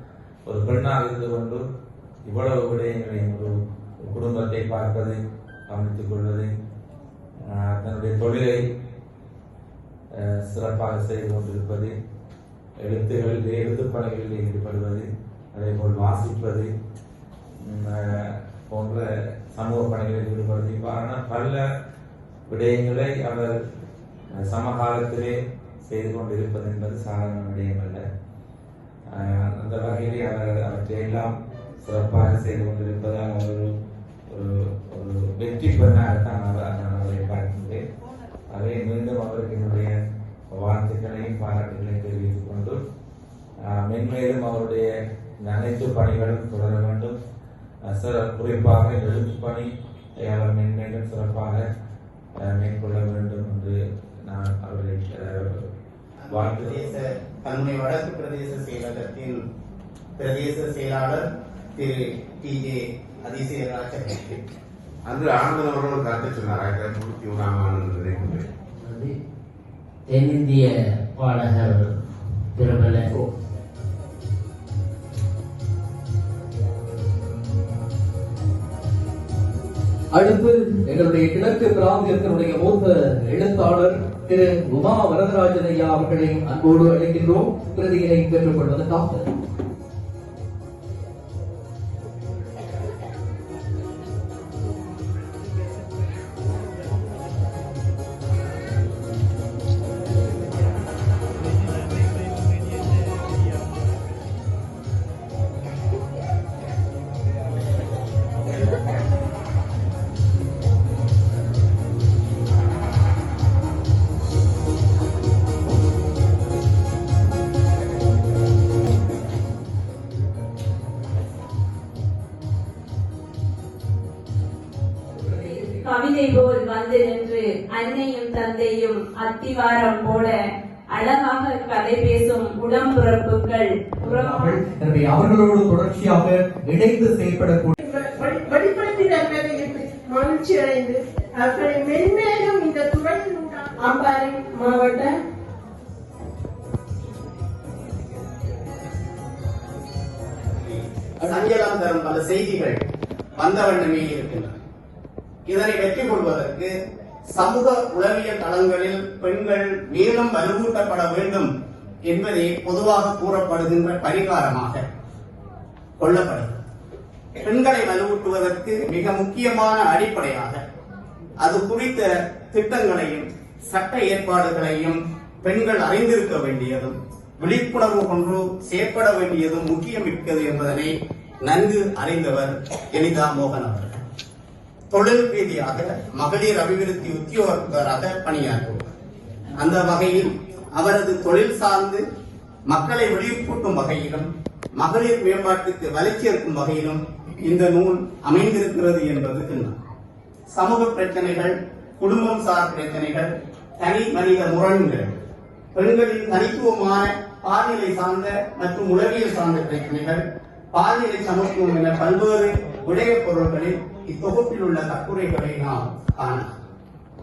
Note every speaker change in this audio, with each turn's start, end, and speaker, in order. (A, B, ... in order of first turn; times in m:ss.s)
0:00.5-0:01.6 A
0:02.2-0:03.5 A
0:04.0-0:05.2 A
0:05.7-0:06.5 A
0:07.6-0:08.6 A
0:10.5-0:11.9 A
0:12.8-0:16.7 A
0:17.6-0:21.6 A
0:22.5-0:23.6 A
0:24.3-0:25.3 A
0:25.8-0:28.0 A
0:29.2-0:31.3 A
0:31.8-0:33.7 A
0:34.3-0:37.8 A
0:38.5-0:39.9 A
0:40.6-0:42.8 A
0:43.7-0:44.9 A
0:45.4-0:47.2 A
0:47.9-0:49.7 A
0:50.2-0:51.6 A
0:52.5-0:55.6 A
0:56.3-0:59.4 B
0:56.3-0:56.8 A
1:00.2-1:04.4 B
1:05.0-1:08.5 C
1:08.8-1:09.2 D
1:10.1-1:12.0 D
1:12.5-1:13.2 D
1:20.1-1:29.3 E
2:05.2-2:05.8 E
2:05.7-2:10.3 F
2:10.9-2:14.6 F
2:14.0-2:17.8 E
2:17.8-2:25.2 G
2:30.7-2:32.8 B
2:33.4-2:34.5 B
2:35.5-2:36.7 B
2:37.3-2:41.5 B
2:42.1-2:44.8 B
2:46.0-2:46.6 B
2:47.4-2:50.6 B
2:51.4-3:04.0 B
3:04.9-3:08.8 B
3:09.6-3:12.0 B
3:12.7-3:19.7 B
3:20.5-3:25.1 B
3:25.7-3:30.2 B
3:30.7-3:36.5 B